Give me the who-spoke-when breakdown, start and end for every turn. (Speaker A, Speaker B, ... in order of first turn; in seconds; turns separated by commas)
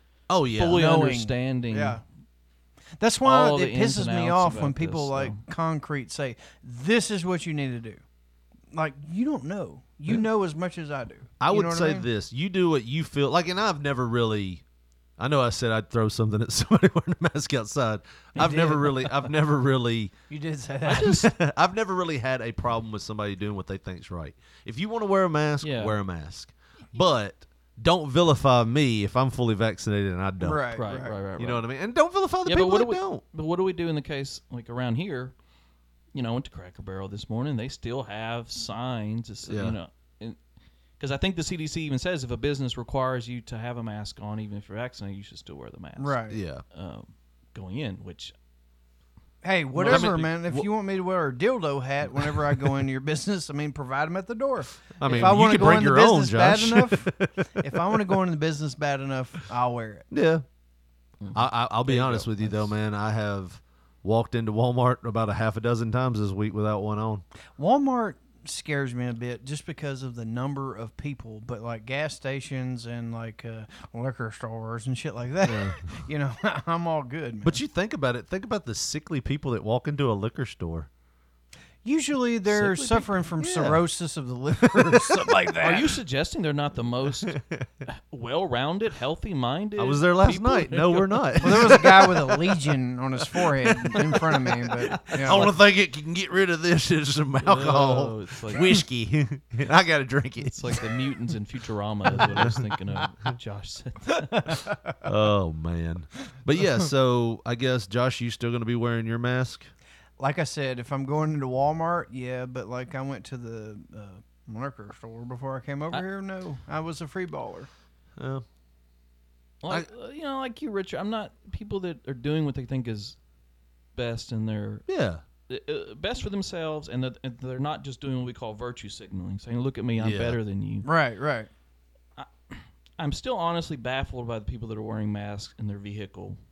Speaker A: 0.3-0.8, Speaker B: 0.5-2.0, Speaker C: 0.7-2.0, Speaker C: 3.0-8.0, Speaker B: 3.2-5.4, Speaker C: 8.7-12.1, Speaker A: 11.4-14.6, Speaker A: 15.2-20.1, Speaker C: 18.4-19.0, Speaker C: 20.3-21.2, Speaker B: 20.9-21.2, Speaker A: 20.9-30.8, Speaker B: 25.6-26.0, Speaker C: 30.4-31.1, Speaker B: 30.7-31.6, Speaker A: 31.4-33.2, Speaker B: 32.4-35.3, Speaker B: 36.1-40.4, Speaker A: 39.5-39.8, Speaker B: 41.0-48.3, Speaker C: 46.0-46.4, Speaker A: 46.3-46.6, Speaker C: 49.4-60.0, Speaker B: 49.7-50.3, Speaker A: 49.8-50.7, Speaker A: 55.0-58.2, Speaker B: 55.0-55.4, Speaker A: 60.1-60.4, Speaker B: 61.2-62.6, Speaker A: 61.3-67.2, Speaker C: 67.6-77.6, Speaker A: 75.4-75.8, Speaker A: 77.4-80.9, Speaker C: 81.8-85.9, Speaker B: 82.5-83.1, Speaker A: 83.4-83.8, Speaker A: 84.7-85.2, Speaker B: 85.6-91.8, Speaker A: 87.1-87.7, Speaker A: 89.8-92.4, Speaker C: 91.4-95.5, Speaker B: 95.1-95.5, Speaker A: 95.1-100.8, Speaker B: 97.4-98.7, Speaker B: 100.5-104.5, Speaker A: 102.1-102.7, Speaker A: 105.0-109.7, Speaker C: 110.2-117.7, Speaker A: 118.2-118.4, Speaker B: 119.6-123.2, Speaker B: 123.9-124.8, Speaker A: 124.9-125.2, Speaker B: 125.5-130.9, Speaker A: 130.0-130.4, Speaker C: 130.8-131.5, Speaker B: 132.2-136.4